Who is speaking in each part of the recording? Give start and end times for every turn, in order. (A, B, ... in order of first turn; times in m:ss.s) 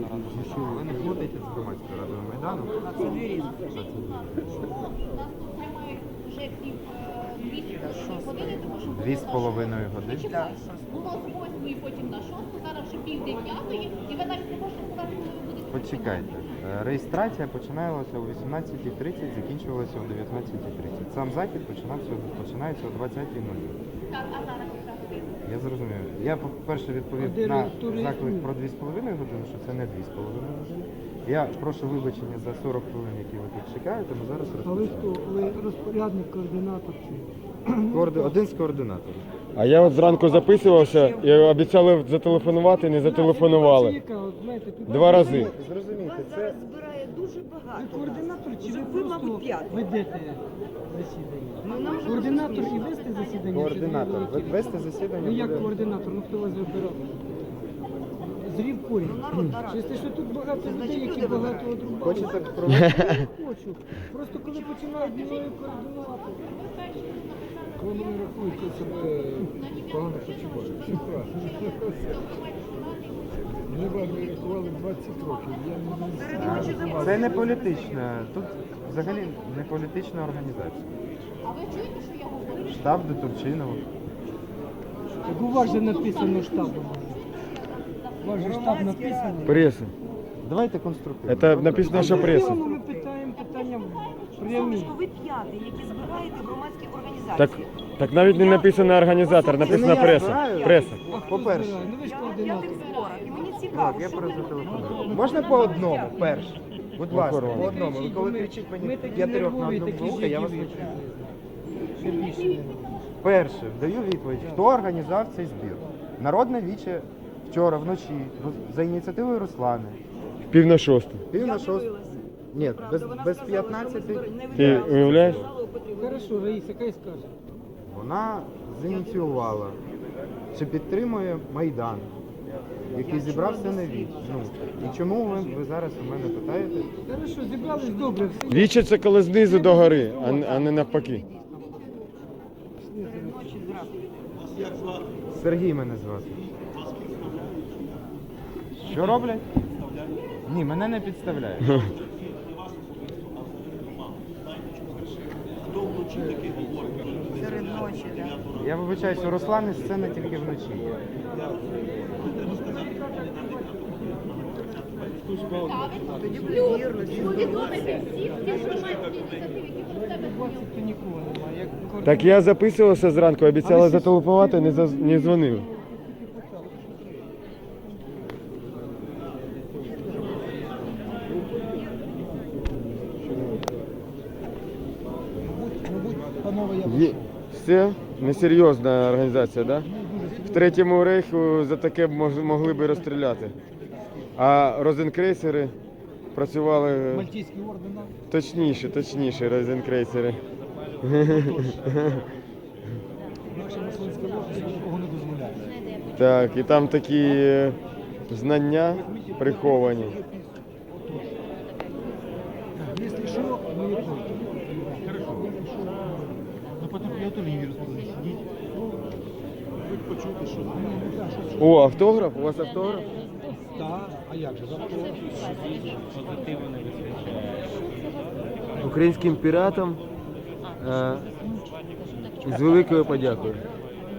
0:00.2-0:04.7 A
0:03.0-0:03.4 B
0:03.3-0:03.7 C
0:04.9-0:09.1 C
0:08.8-0:10.4 A
0:10.5-0:16.2 C
0:15.7-0:23.8 A
0:24.2-0:25.3 C
0:25.4-0:35.2 A
0:27.2-0:28.5 D
0:34.6-0:38.4 D
0:37.9-0:39.3 A
0:39.6-0:44.0 E
0:40.0-0:41.4 B
0:42.9-0:45.5 D
0:44.9-0:45.5 E
0:45.1-0:46.6 A
0:46.1-0:49.7 B
0:47.8-0:57.6 D
0:51.6-0:52.8 B
0:53.5-0:55.7 A
0:58.2-1:06.4 D
0:59.1-0:59.7 B
1:00.8-1:01.8 B
1:01.9-1:03.2 A
1:06.4-1:14.8 C
1:07.9-1:10.8 F
1:13.8-1:16.8 F
1:16.1-1:17.8 B
1:16.3-1:20.9 A
1:21.4-1:22.7 C
1:22.7-1:23.9 A
1:25.3-1:27.2 D
1:26.9-1:28.5 C
1:28.2-1:29.7 D
1:28.4-1:29.5 B
1:29.5-1:29.9 E
1:30.4-1:32.6 A
1:31.3-1:32.5 E
1:31.9-1:35.0 D
1:32.0-1:32.6 B
1:34.4-1:37.7 B
1:37.4-1:41.0 E
1:39.4-1:41.2 B
1:39.6-1:41.8 A
1:41.1-1:42.9 D
1:42.0-1:44.5 B
1:43.7-1:50.9 A
1:44.8-1:45.2 C
1:45.2-1:46.2 B
1:47.1-1:47.8 E
1:47.5-1:51.3 D
1:52.0-1:53.0 D
1:53.2-2:00.0 A
2:00.5-2:01.2 E
2:01.3-2:01.9 A
2:01.4-2:06.0 B
2:02.5-2:05.5 A
2:04.5-2:05.4 E
2:06.0-2:07.3 D
2:07.9-2:09.8 A
2:10.5-2:12.1 A
2:12.9-2:16.9 A
2:13.0-2:14.8 B
2:17.1-2:18.8 D
2:18.5-2:21.2 E
2:19.5-2:20.6 D
2:23.0-2:23.3 D
2:23.1-2:23.9 B
2:25.3-2:26.4 A
2:28.8-2:29.5 A
2:30.5-2:31.9 A
2:37.4-2:38.4 B
2:38.6-2:40.9 A
2:42.3-2:44.4 D
2:45.6-2:46.6 C
2:46.2-2:48.1 B
2:47.1-2:50.4 C
2:50.0-2:52.3 D
2:52.0-2:55.7 E
2:53.6-2:55.8 D
3:06.7-3:13.6 E
3:14.4-3:15.7 E
3:16.3-3:17.4 E
3:17.4-3:18.1 D
3:18.3-3:20.4 E
3:21.0-3:22.2 E
3:23.8-3:24.8 D
3:26.1-3:27.8 E
3:28.3-3:30.2 E
3:33.2-3:34.3 D
3:41.6-3:43.1 E
3:43.8-3:45.1 D
3:48.8-3:50.0 E
3:50.8-3:51.3 E
3:52.4-3:53.6 E